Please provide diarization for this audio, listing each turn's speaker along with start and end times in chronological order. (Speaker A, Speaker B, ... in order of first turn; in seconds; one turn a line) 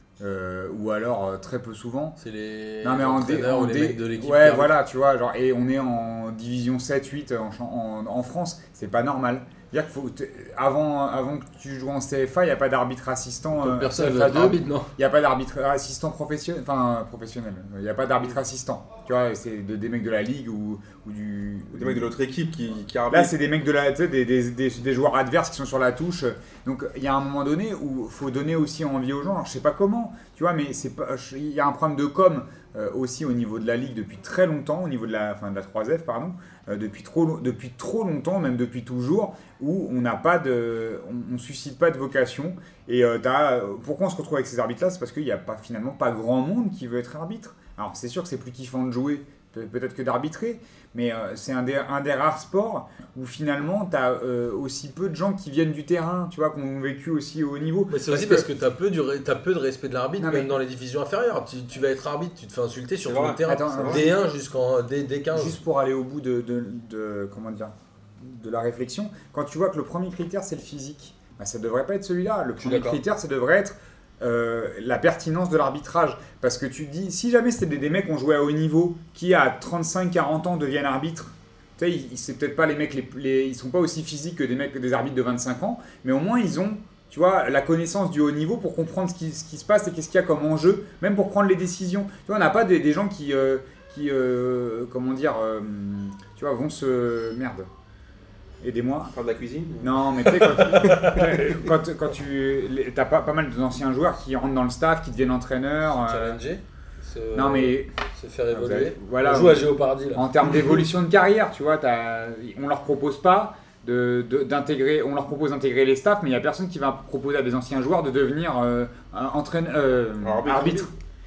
Speaker A: 0.2-2.2
Speaker B: 2.2-4.7
Speaker A: 2.8-22.1
Speaker B: 13.6-14.9
Speaker C: 21.7-23.3
Speaker A: 23.1-58.5
Speaker B: 57.9-65.6
Speaker A: 60.2-60.5
Speaker C: 63.1-64.0
Speaker A: 63.4-64.1
Speaker A: 65.3-97.7
Speaker B: 72.6-73.0
Speaker A: 98.6-99.1
Speaker C: 99.1-101.6
Speaker A: 99.8-106.4
Speaker B: 100.7-101.2
Speaker B: 105.9-110.6
Speaker A: 107.3-107.9
Speaker A: 108.5-120.9
Speaker C: 120.2-120.9